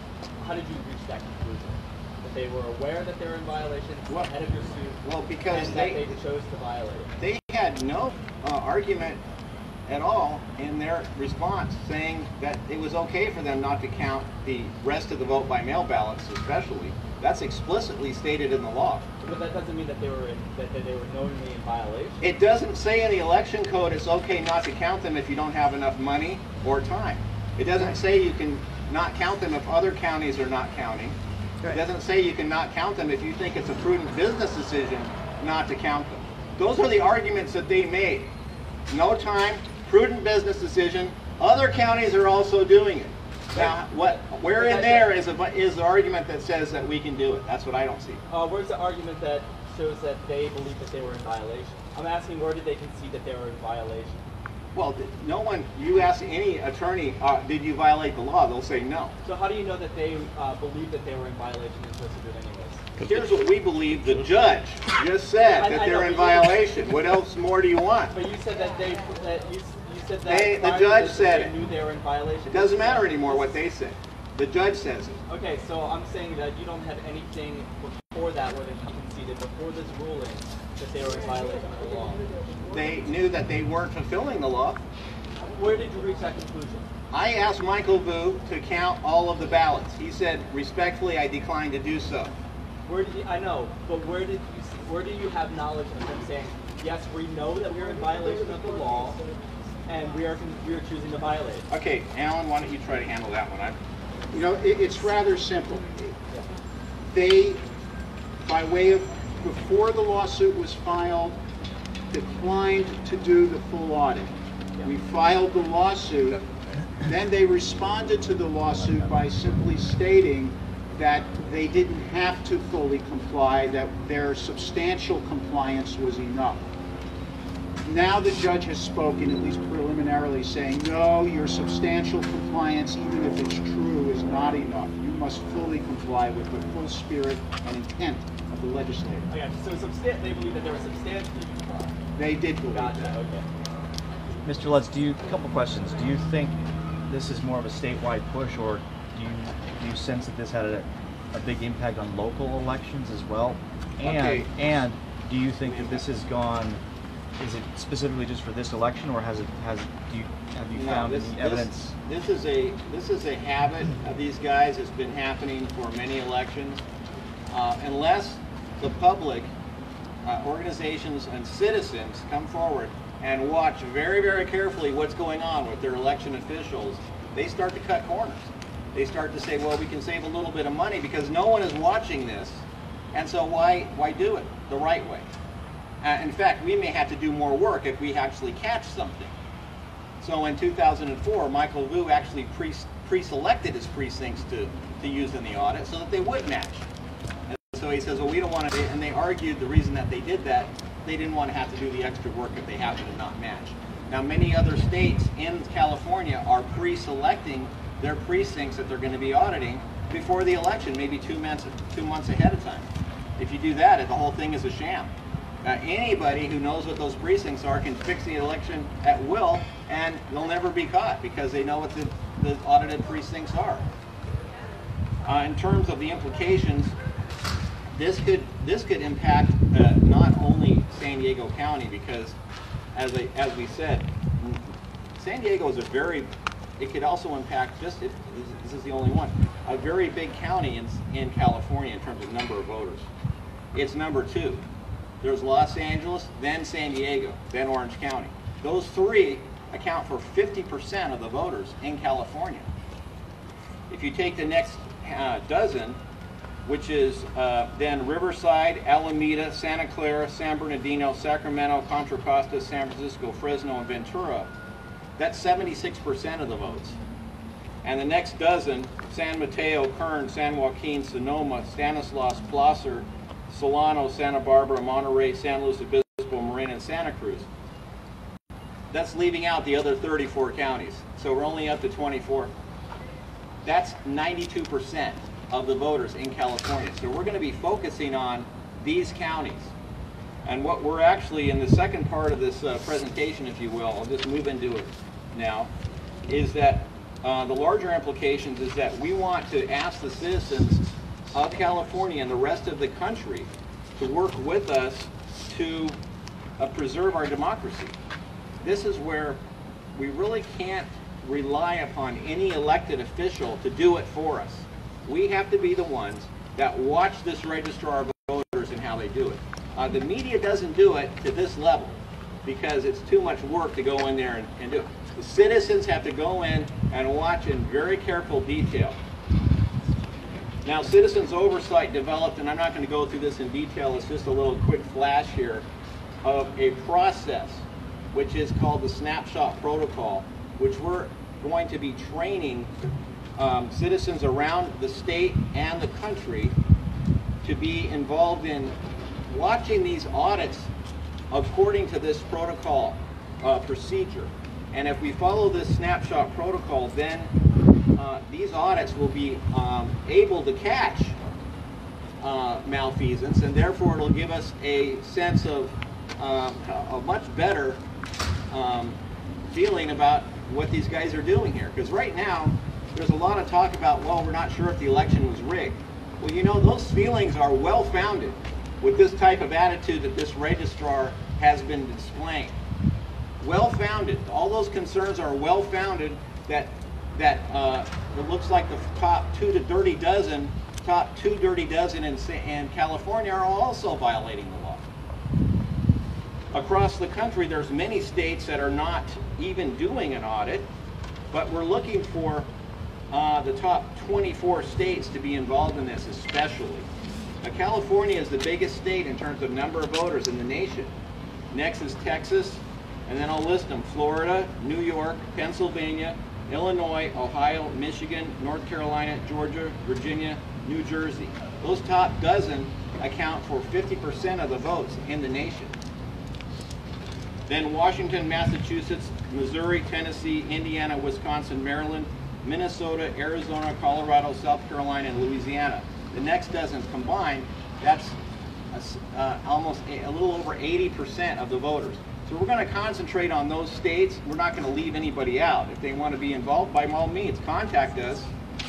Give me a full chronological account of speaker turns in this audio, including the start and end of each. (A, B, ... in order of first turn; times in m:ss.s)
0:00.4-0:07.1 A
0:05.0-0:06.1 B
0:07.2-0:09.2 B
0:09.9-0:19.0 B
0:19.2-0:22.2 A
0:22.2-0:31.2 B
0:31.7-0:38.3 B
0:38.9-0:48.2 B
0:43.5-0:45.1 A
0:48.3-0:54.2 A
0:54.7-0:59.1 B
0:59.2-1:02.8 A
1:03.0-1:08.1 B
1:05.5-1:06.6 A
1:08.1-1:13.5 A
1:10.3-1:11.5 B
1:12.5-1:15.1 B
1:15.3-1:22.2 A
1:22.7-1:24.8 B
1:25.4-1:26.8 A
1:27.1-1:32.3 B
1:32.9-1:39.2 A
1:39.9-1:41.7 A
1:41.7-1:43.8 B
1:44.3-1:46.1 C
1:47.1-1:47.6 C
1:48.4-1:51.4 C
1:52.1-1:56.4 C
1:57.0-2:06.7 C
2:07.8-2:19.3 C
2:19.3-2:21.9 A
2:22.2-2:23.2 C
2:22.7-2:23.5 A
2:24.4-2:26.6 D
2:27.1-2:36.8 D
2:34.0-2:34.5 B
2:35.6-2:36.1 B
2:37.4-2:41.9 D
2:40.8-2:46.8 B
2:47.5-2:49.5 B
2:50.2-3:05.3 B
3:06.0-3:09.3 B
3:10.2-3:16.9 B
3:17.5-3:35.1 B
3:35.6-3:43.9 B
3:45.2-3:46.9 B
3:47.9-3:52.4 B
3:53.0-3:54.7 B
3:55.2-4:03.1 B
4:03.7-4:04.6 B
4:05.2-4:12.7 B
4:13.9-4:16.0 B
4:16.6-4:24.5 B
4:25.2-4:27.0 B
4:27.8-4:37.5 B
4:38.9-4:42.5 B
4:43.6-4:49.7 B
4:50.4-4:55.7 B
4:56.3-5:06.0 B
5:06.6-5:07.9 B
5:08.6-5:09.4 B
5:10.0-5:29.0 B
5:30.6-5:35.7 B
5:36.2-5:42.7 B
5:43.4-5:46.5 B
5:47.4-5:48.8 B
5:49.3-5:50.7 B
5:51.3-5:57.3 B
5:58.0-6:01.2 B
6:02.2-6:07.8 B
6:08.5-6:09.0 B
6:09.5-6:22.6 B
6:23.4-6:34.8 B
6:36.5-6:40.7 B
6:41.3-6:42.5 B
6:43.1-6:46.9 B
6:47.4-6:50.9 B
6:51.5-7:05.7 B
7:07.5-7:18.2 B
7:18.7-7:28.3 B